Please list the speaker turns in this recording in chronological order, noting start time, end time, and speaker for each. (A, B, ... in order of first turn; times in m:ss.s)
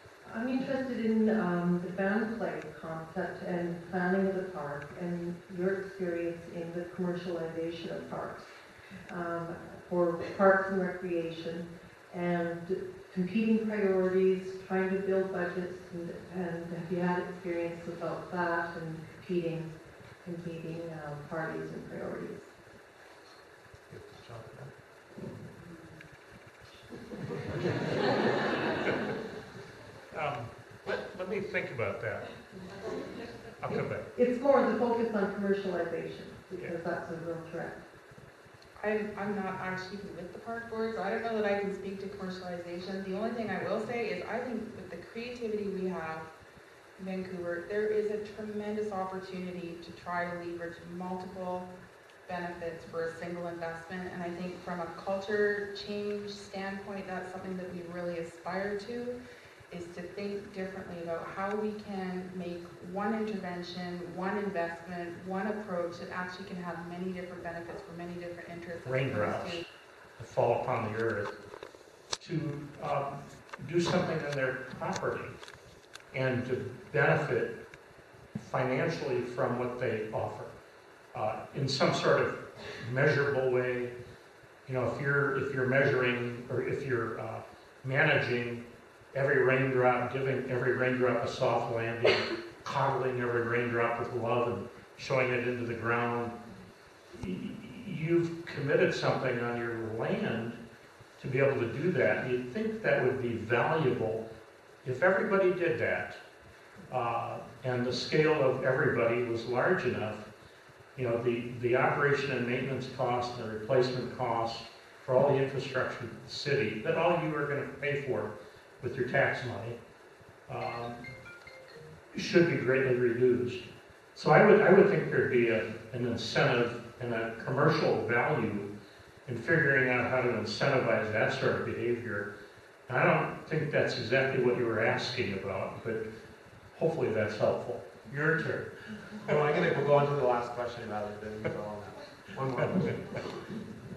0:00.2-0:22.5 A
0:23.9-0:24.7 B
0:25.5-0:26.0 C
0:30.1-0:32.3 D
0:33.6-0:34.1 D
0:33.7-0:37.8 A
0:38.8-0:46.3 C
0:47.0-0:51.7 C
0:52.2-0:59.2 C
0:59.7-1:09.6 C
1:08.8-1:09.6 D
1:10.2-1:11.3 D
1:12.2-1:15.4 D
1:16.1-1:17.6 D
1:18.3-1:20.5 D
1:21.1-1:23.9 D
1:24.6-1:36.3 D
1:37.1-1:40.6 D
1:41.2-1:44.2 D
1:44.8-1:46.2 D
1:46.9-1:50.3 D
1:51.0-1:59.8 D
2:00.5-2:01.0 D
2:02.1-2:03.6 D
2:04.1-2:08.7 D
2:09.2-2:12.3 D
2:12.9-2:16.0 D
2:16.7-2:18.7 D
2:19.2-2:23.2 B